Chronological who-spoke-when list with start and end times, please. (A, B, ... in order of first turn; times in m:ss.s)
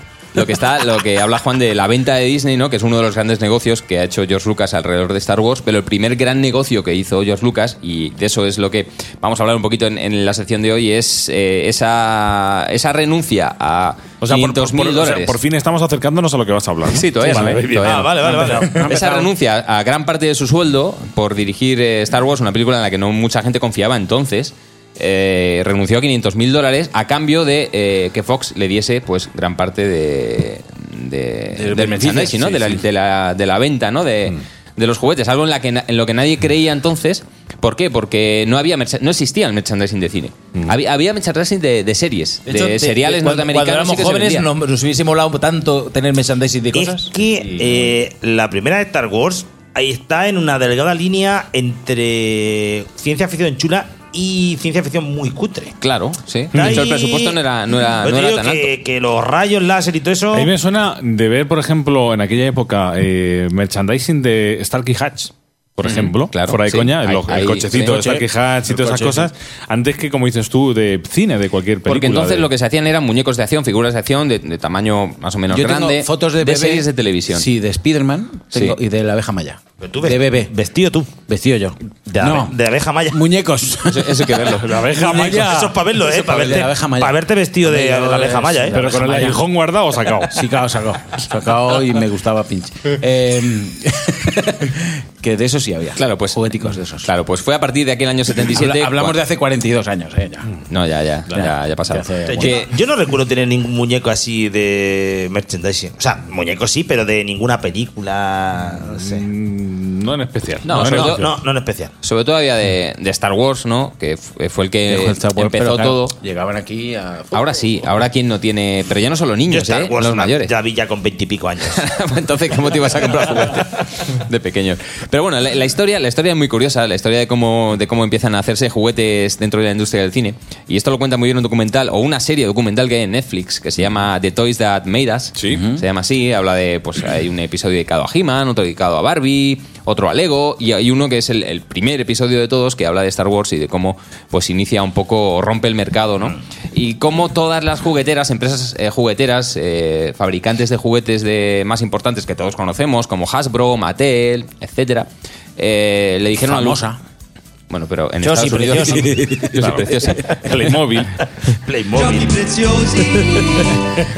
0:00.3-0:15.4 A
0:14.2-0:18.3 B
0:16.9-0:18.0 A
0:17.3-0:19.3 C
0:17.7-0:18.7 D
0:18.6-0:44.5 A
0:31.5-0:32.8 C
0:42.4-0:48.0 E
0:46.7-0:55.7 D
0:55.8-0:58.7 A
0:56.5-0:56.8 B
0:56.5-0:57.4 D
0:58.0-1:00.5 D
1:00.3-1:12.5 B
1:05.8-1:08.0 A
1:07.6-1:09.3 C
1:11.8-1:17.4 A
1:15.5-1:20.5 C
1:19.8-1:21.1 D
1:21.2-1:22.6 C
1:22.1-1:23.3 D
1:23.1-1:29.4 C
1:23.9-1:24.8 A
1:24.6-1:25.8 B
1:25.3-1:28.8 D
1:28.7-1:30.4 B
1:30.2-1:37.1 C
1:36.0-1:39.2 A
1:38.4-1:40.5 C
1:40.7-1:42.7 A
1:41.3-1:42.6 C
1:42.3-1:49.2 D
1:48.8-1:51.3 B
1:50.6-1:51.3 A
1:50.7-1:51.9 D
1:52.0-1:56.2 A
1:54.9-1:57.7 C
1:57.3-2:00.5 A
1:59.5-2:01.8 D
2:01.7-2:36.8 A
2:15.4-2:15.6 B
2:15.5-2:15.8 C
2:36.4-2:37.0 C
2:37.7-2:40.4 A
2:38.2-2:39.3 E
2:38.8-2:39.7 C
2:39.5-2:41.1 B
2:41.6-2:43.7 D